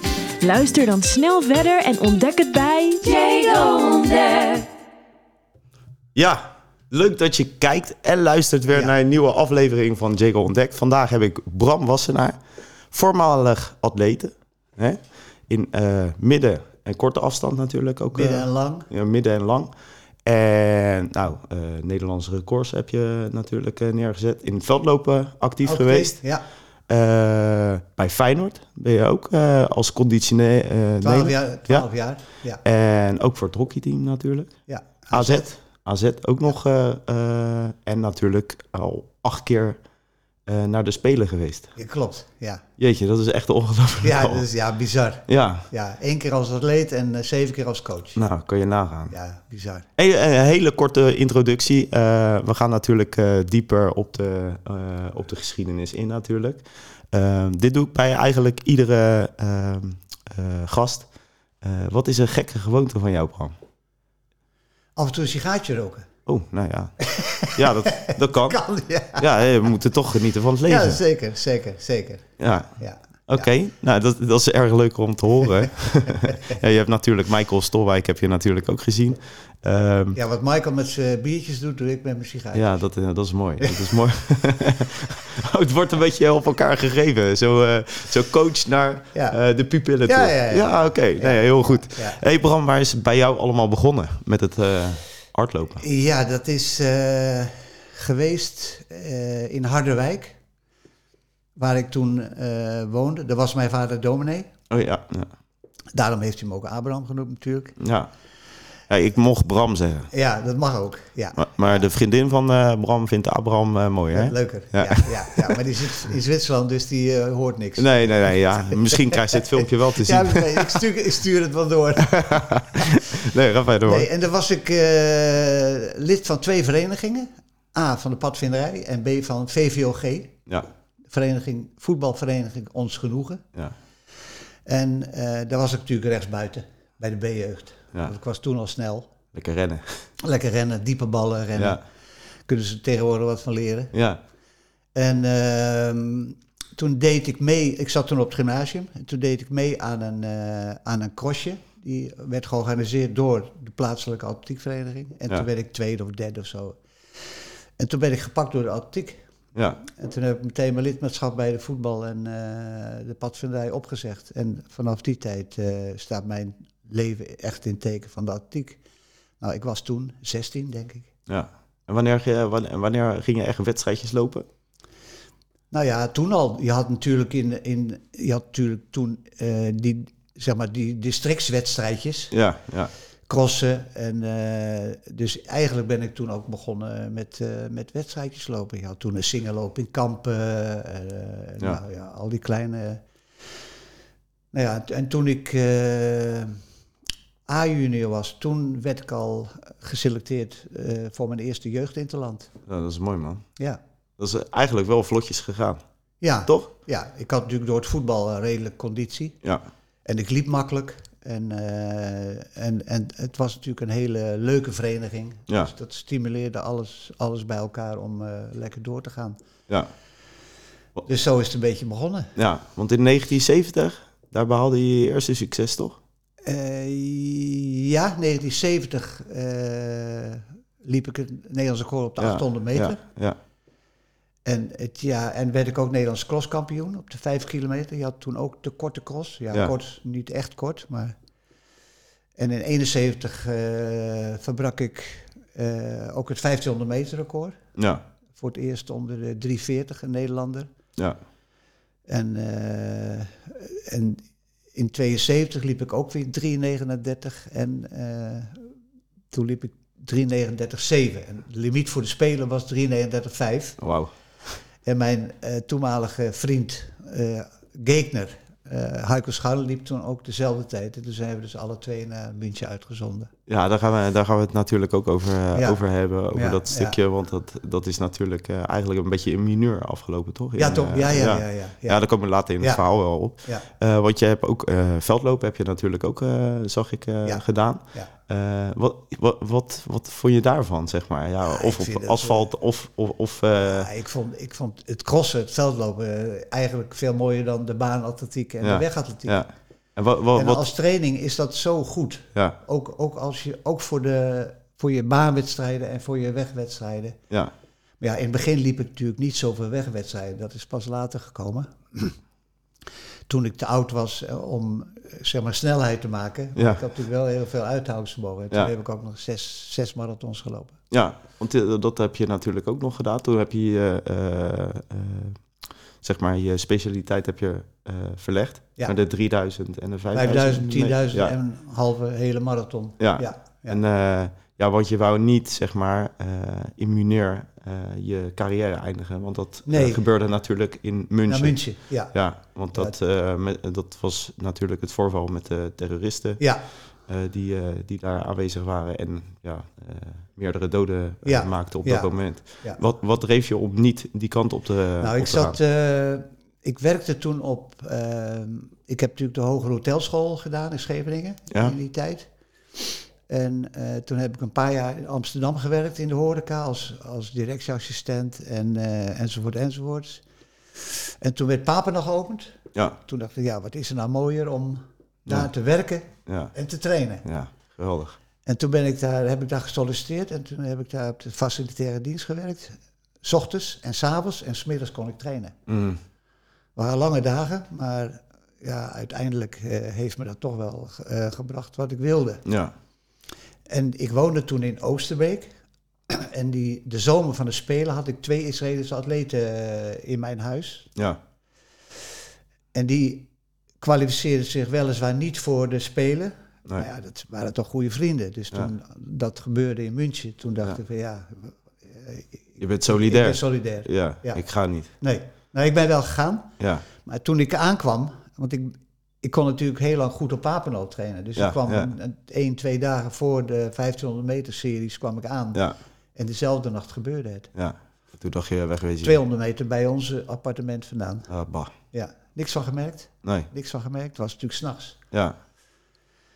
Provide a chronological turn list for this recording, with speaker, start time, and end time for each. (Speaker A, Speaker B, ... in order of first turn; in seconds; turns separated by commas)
Speaker A: 0.4-4.7, Speaker B: 6.1-12.4, Speaker B: 12.9-19.7, Speaker C: 18.1-18.9, Speaker B: 20.2-26.2, Speaker C: 25.6-26.4, Speaker B: 26.9-31.8, Speaker C: 31.0-32.6, Speaker B: 32.6-34.5, Speaker C: 34.7-35.5, Speaker B: 35.1-39.8, Speaker B: 40.5-41.7, Speaker C: 41.8-42.6, Speaker B: 42.8-44.4, Speaker C: 44.0-48.2, Speaker B: 45.3-45.6, Speaker B: 48.1-49.1, Speaker C: 49.1-49.9, Speaker B: 50.0-61.1, Speaker B: 61.6-63.5, Speaker C: 65.0-66.1, Speaker B: 66.3-68.6, Speaker C: 67.0-69.5, Speaker B: 69.2-71.0, Speaker C: 70.6-73.5, Speaker B: 72.4-72.7, Speaker B: 73.3-80.2, Speaker C: 76.0-76.5, Speaker C: 80.1-82.8, Speaker B: 82.5-95.8, Speaker C: 83.6-83.9, Speaker C: 90.0-92.2, Speaker C: 95.8-100.4, Speaker C: 101.6-104.5, Speaker B: 104.7-105.3, Speaker C: 105.9-107.8, Speaker B: 107.8-108.1, Speaker B: 108.9-110.1, Speaker C: 110.1-111.8, Speaker B: 111.3-115.6, Speaker C: 114.1-123.0, Speaker B: 117.8-120.8, Speaker B: 122.0-124.1, Speaker C: 123.8-130.4, Speaker C: 131.1-133.4, Speaker C: 134.7-139.1, Speaker B: 139.3-140.0, Speaker C: 140.2-141.8, Speaker B: 141.5-141.8, Speaker C: 142.5-143.9, Speaker B: 143.9-144.2, Speaker C: 144.9-156.8, Speaker C: 157.8-159.2, Speaker B: 159.5-159.8, Speaker C: 159.8-168.8, Speaker C: 169.4-171.1, Speaker B: 171.3-174.4, Speaker C: 175.7-182.3, Speaker B: 182.3-182.9, Speaker C: 183.3-193.0, Speaker C: 194.5-196.6, Speaker C: 197.5-202.5, Speaker B: 202.7-203.4, Speaker B: 204.2-205.8, Speaker C: 206.2-209.4, Speaker C: 210.0-219.4, Speaker C: 221.0-222.3, Speaker B: 222.3-226.0, Speaker C: 226.4-233.0, Speaker B: 232.2-233.4, Speaker C: 234.4-241.1, Speaker C: 242.4-247.6, Speaker B: 247.8-248.0, Speaker C: 248.3-250.7, Speaker C: 252.1-258.7, Speaker C: 259.3-263.8, Speaker B: 263.8-264.1, Speaker C: 264.8-273.3, Speaker B: 273.5-293.9, Speaker C: 275.5-275.8, Speaker C: 276.3-277.0, Speaker C: 280.6-282.0, Speaker C: 287.2-288.1, Speaker C: 291.4-292.5, Speaker C: 293.6-299.4, Speaker B: 298.6-300.6, Speaker C: 300.3-307.2, Speaker C: 308.0-312.1, Speaker C: 313.3-320.8, Speaker B: 316.6-316.8, Speaker B: 320.9-325.4, Speaker B: 326.0-331.3, Speaker C: 330.1-333.8, Speaker B: 333.0-346.4, Speaker C: 339.6-340.0, Speaker C: 341.3-342.1, Speaker C: 346.4-346.6, Speaker B: 347.1-355.6, Speaker C: 351.2-352.8, Speaker C: 355.0-362.3, Speaker C: 363.3-370.2, Speaker C: 370.8-377.2, Speaker B: 376.3-376.5, Speaker B: 377.2-378.2, Speaker C: 378.4-385.6, Speaker B: 385.7-386.0, Speaker C: 386.8-392.4, Speaker B: 392.4-392.7, Speaker C: 393.7-395.5, Speaker C: 396.1-400.9, Speaker C: 402.7-403.3, Speaker C: 403.8-414.4, Speaker B: 412.6-414.9, Speaker C: 414.9-416.5, Speaker B: 416.6-416.8, Speaker C: 417.0-425.6, Speaker B: 421.4-421.9, Speaker C: 426.1-427.5, Speaker B: 427.5-429.2, Speaker C: 429.0-431.3, Speaker B: 431.3-431.7, Speaker C: 431.9-435.0